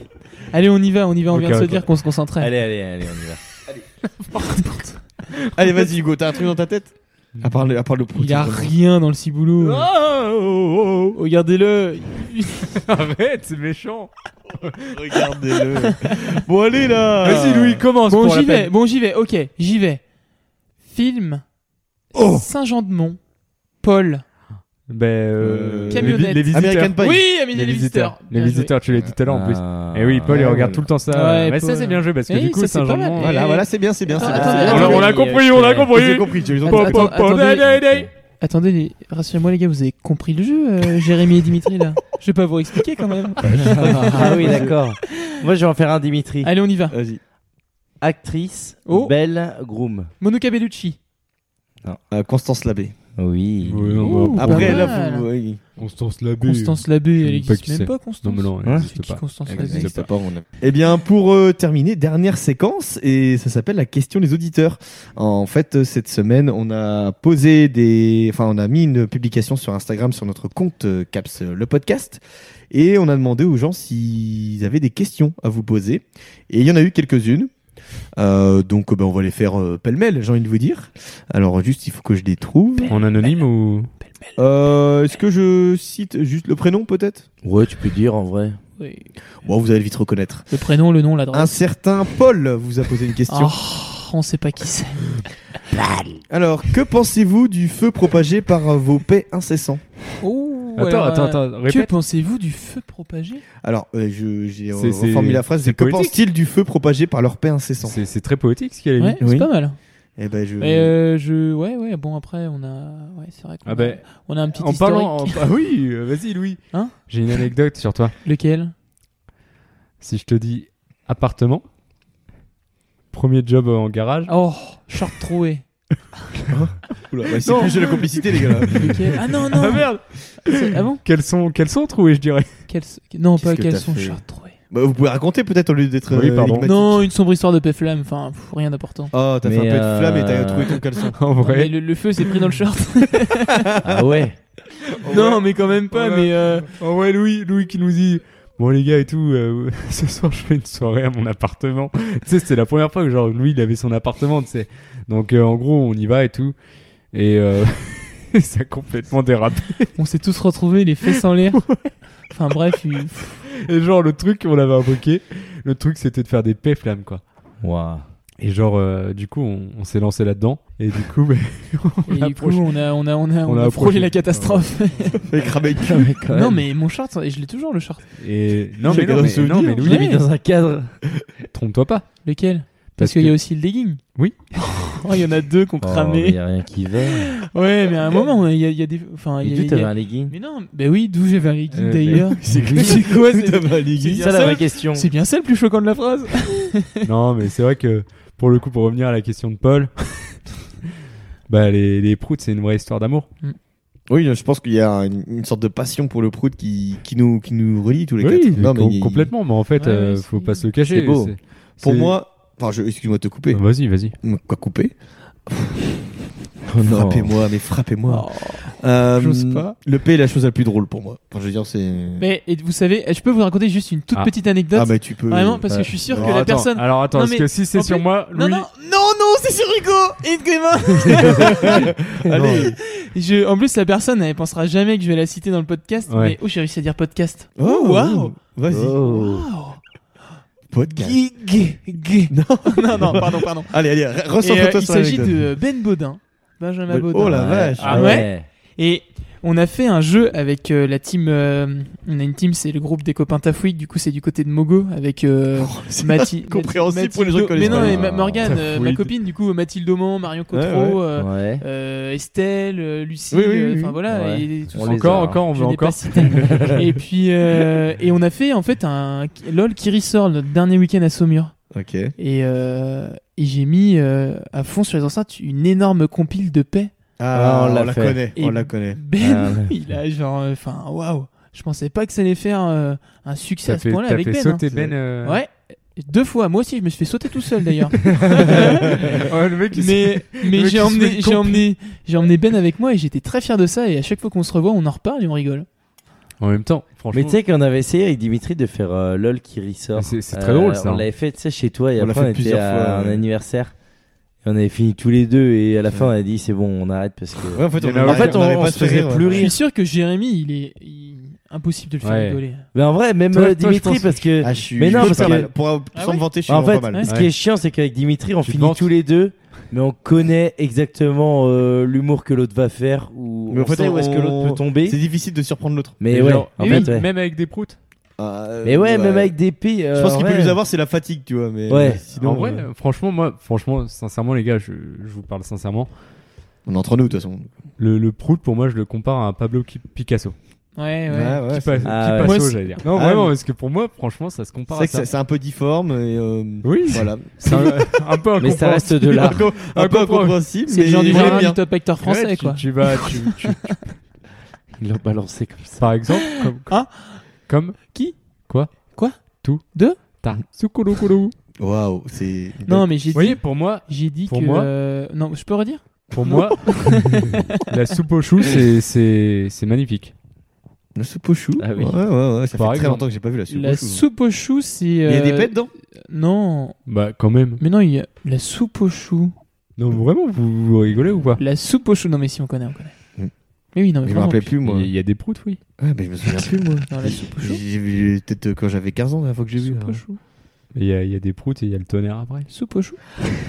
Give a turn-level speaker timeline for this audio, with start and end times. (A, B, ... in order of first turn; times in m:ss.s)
0:00.5-0:02.5 A
0:01.3-0:01.8 B
0:02.4-0:03.4 C
0:04.3-0:05.0 A
0:05.6-0:08.7 D
0:08.2-0:09.9 A
0:09.6-0:11.2 B
0:11.2-0:12.8 A
0:12.7-0:15.2 B
0:14.9-0:17.8 D
0:15.9-0:16.2 A
0:17.2-0:18.7 B
0:17.3-0:17.5 A
0:18.0-0:20.1 A
0:20.8-0:21.4 A
0:22.1-0:23.2 A
0:22.2-0:22.5 B
0:23.8-0:24.2 A
0:24.9-0:33.4 B
0:25.4-0:27.2 D
0:25.9-0:28.7 A
0:29.2-0:30.8 C
0:30.3-0:30.9 D
0:31.1-0:35.1 A
0:33.2-0:35.2 D
0:34.1-0:35.9 C
0:34.3-0:38.1 B
0:35.9-0:37.2 D
0:36.6-0:37.6 A
0:37.6-0:38.1 C
0:38.4-0:44.8 A
0:43.6-0:44.8 D
0:43.7-0:46.5 C
0:46.4-0:47.0 A
0:46.9-0:47.2 D
0:48.0-0:50.1 C
0:48.9-0:49.1 A
0:50.2-0:51.0 A
0:52.1-0:53.0 D
0:53.2-0:54.4 C
0:53.6-0:54.9 B
0:54.1-0:55.3 A
0:54.4-0:55.6 D
0:55.8-1:00.1 B
0:56.4-1:00.1 A
0:59.5-1:17.5 D
1:18.2-1:23.0 D
1:22.8-1:23.4 A
1:22.9-1:23.9 B
1:24.4-1:27.3 D
1:27.4-1:28.6 C
1:28.8-1:29.1 A
1:29.4-1:30.5 D
1:30.5-1:31.6 A
1:31.3-1:33.6 D
1:33.3-1:35.2 A
1:36.3-1:39.8 D
1:40.2-1:43.4 A
1:40.8-1:41.9 B
1:43.6-1:48.0 D
1:44.7-1:46.2 B
1:47.8-1:49.2 B
1:49.0-1:49.8 A
1:49.2-1:49.5 D
1:50.2-1:50.9 D
1:50.6-1:55.5 A
1:53.6-1:58.2 B
1:58.2-1:58.7 A
2:00.0-2:01.6 B
2:03.1-2:04.3 B
2:04.3-2:05.6 A
2:06.5-2:09.0 D
2:07.4-2:12.7 B
2:08.7-2:11.0 A
2:12.7-2:14.6 A
2:13.4-2:17.1 D
2:16.1-2:16.7 B
2:16.6-2:19.1 A
2:19.1-2:21.2 D
2:19.4-2:20.8 C
2:21.2-2:21.8 B
2:21.4-2:23.7 A
2:23.8-2:24.2 D
2:23.8-2:24.4 C
2:25.0-2:36.6 B
2:25.0-2:26.7 A
2:37.1-2:39.9 B
2:40.0-2:43.4 A
2:43.6-2:47.2 B
2:47.6-2:48.0 C
2:48.4-2:52.7 B
2:52.1-2:55.2 A
2:53.4-2:54.7 B
2:55.2-2:56.1 D
2:55.8-2:56.6 C
2:56.3-2:58.0 A
2:58.2-3:00.1 B
2:58.9-2:59.8 D
2:59.0-3:01.0 C
2:59.8-3:00.2 A
3:01.5-3:02.2 B
3:02.2-3:04.0 A
3:03.0-3:03.4 B
3:04.2-3:04.5 B
3:04.6-3:06.4 A
3:05.8-3:07.3 C
3:07.4-3:17.0 A
3:09.4-3:10.3 C
3:11.7-3:12.6 B
3:12.4-3:14.5 D
3:12.5-3:13.2 C
3:14.1-3:15.1 C
3:17.0-3:20.4 B
3:21.5-3:23.3 B
3:24.1-3:29.3 D
3:28.2-3:32.2 B
3:29.8-3:30.6 A
3:30.8-3:31.4 C
3:31.8-3:33.6 D
3:33.5-3:34.2 B
3:34.2-3:35.0 D
3:35.5-3:35.9 D
3:36.7-3:37.4 C
3:36.8-3:42.2 D
3:38.1-3:39.8 A
3:42.2-3:51.9 A
3:44.7-3:46.6 D
3:45.7-3:45.9 C
3:46.2-3:48.7 B
3:51.2-3:52.8 D
3:52.3-3:52.8 B
3:52.6-3:58.4 A
3:56.1-3:56.4 B
3:57.6-3:59.1 D
3:58.7-3:59.5 C
3:59.0-3:59.8 A
4:00.7-4:01.5 D
4:01.2-4:03.8 A
4:02.3-4:05.5 D
4:04.4-4:31.6 A
4:06.9-4:08.1 D
4:07.2-4:08.5 C
4:07.8-4:08.1 B
4:15.6-4:19.1 D
4:17.6-4:18.5 C
4:20.5-4:21.0 D
4:21.2-4:21.6 C
4:23.3-4:24.0 D
4:24.1-4:25.4 C
4:24.8-4:26.8 B
4:26.4-4:26.8 C
4:31.7-4:32.1 D
4:32.2-4:36.9 A
4:37.2-4:39.0 D
4:37.3-4:38.2 C
4:38.4-4:44.6 A
4:39.2-4:39.7 C
4:43.7-4:45.4 B
4:45.2-4:55.7 A
4:48.4-4:51.6 B
4:56.4-4:57.4 B
4:57.1-5:03.8 C
5:00.0-5:01.1 B
5:02.0-5:03.2 D
5:04.4-5:09.6 C
5:07.5-5:09.5 D
5:07.8-5:08.5 B
5:09.3-5:12.6 A
5:12.0-5:12.4 B
5:12.7-5:15.5 C
5:13.3-5:15.5 B
5:14.4-5:17.0 D
5:15.9-5:16.3 A
5:16.5-5:25.0 C
5:16.9-5:17.2 A
5:18.4-5:18.9 B
5:23.5-5:26.0 D
5:26.0-5:27.1 C
5:26.1-5:27.8 B
5:26.6-5:27.0 A
5:28.2-5:29.4 D
5:28.6-5:30.6 C
5:29.9-5:32.7 D
5:31.7-5:32.0 C
5:32.1-5:35.9 B
5:36.7-5:37.5 D
5:37.8-5:40.4 B
5:40.8-5:41.4 A
5:41.1-5:42.0 D
5:41.5-5:45.1 B
5:41.8-5:42.4 C
5:42.2-5:42.8 A
5:42.8-5:43.3 D
5:44.7-5:48.2 D
5:46.6-5:50.5 B
5:48.4-5:49.4 C
5:49.0-5:51.6 D
5:50.7-5:53.8 A
5:51.1-5:53.9 B
5:54.8-5:55.9 C
5:55.8-6:01.3 B
5:56.4-5:57.3 A
5:57.9-5:58.2 A
5:58.9-5:59.2 A
5:59.7-6:00.0 A
6:01.6-6:02.9 D
6:02.7-6:07.7 A
6:03.1-6:04.7 B
6:06.1-6:10.1 B
6:11.0-6:14.0 D
6:11.6-6:12.0 C
6:12.5-6:13.1 B
6:13.5-6:16.8 A
6:15.0-6:15.7 D
6:16.9-6:17.6 B
6:17.6-6:19.3 A
6:19.8-6:21.4 B
6:21.4-6:22.9 A
6:23.7-6:24.5 A
6:24.0-6:24.9 D
6:24.6-6:25.6 B
6:25.8-6:30.0 D
6:26.9-6:27.6 A
6:29.6-6:30.2 A
6:30.7-6:32.5 B
6:32.5-6:33.0 A